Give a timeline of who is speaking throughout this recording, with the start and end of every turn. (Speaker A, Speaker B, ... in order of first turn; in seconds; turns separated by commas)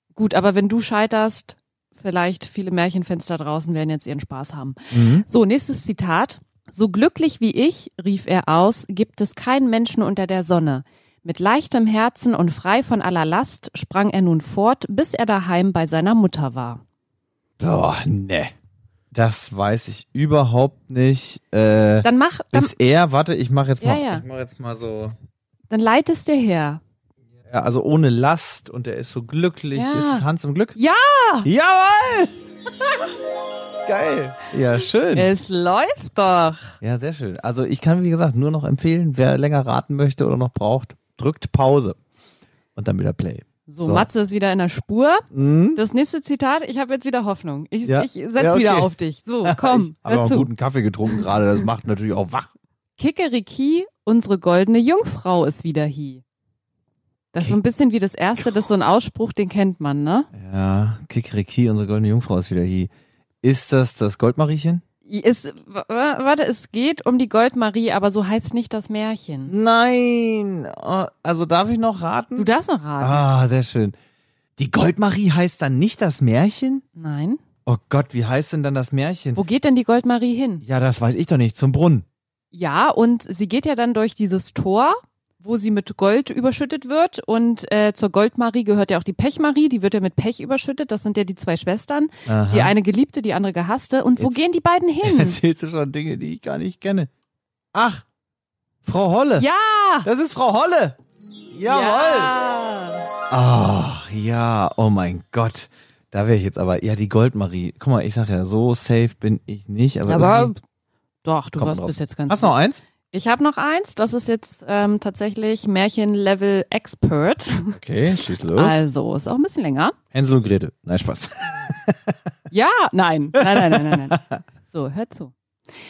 Speaker A: 0.1-16.8, Speaker B: 4.9-5.2, Speaker B: 17.6-18.5, Speaker B: 19.1-25.1, Speaker A: 22.0-22.7, Speaker A: 23.8-24.2, Speaker A: 25.7-26.8, Speaker B: 27.5-30.8, Speaker A: 29.7-30.2, Speaker A: 30.8-31.5, Speaker B: 31.4-33.1, Speaker B: 33.8-35.3, Speaker A: 35.1-36.8, Speaker B: 36.8-42.0, Speaker B: 42.7-44.1, Speaker A: 43.7-50.5, Speaker B: 45.3-45.8, Speaker B: 47.9-48.9, Speaker B: 49.4-52.5, Speaker A: 53.0-56.2, Speaker A: 57.3-60.3, Speaker B: 60.3-62.9, Speaker B: 63.4-64.8, Speaker A: 65.0-69.5, Speaker B: 69.5-74.0, Speaker A: 72.3-73.2, Speaker B: 74.6-76.8, Speaker A: 77.0-77.4, Speaker B: 77.7-79.4, Speaker A: 79.3-80.6, Speaker B: 80.6-82.0, Speaker A: 82.5-95.4, Speaker B: 92.3-92.7, Speaker B: 94.2-94.4, Speaker B: 95.0-97.1, Speaker B: 97.7-98.0, Speaker B: 98.8-99.5, Speaker A: 99.4-100.1, Speaker B: 100.0-101.0, Speaker B: 101.5-102.3, Speaker A: 101.6-103.0, Speaker B: 103.3-110.5, Speaker A: 110.1-110.6, Speaker A: 111.2-112.5, Speaker B: 111.6-112.8, Speaker A: 113.1-117.8, Speaker B: 117.8-118.8, Speaker A: 118.5-119.9, Speaker B: 120.1-122.1, Speaker A: 122.5-125.3, Speaker B: 123.4-124.4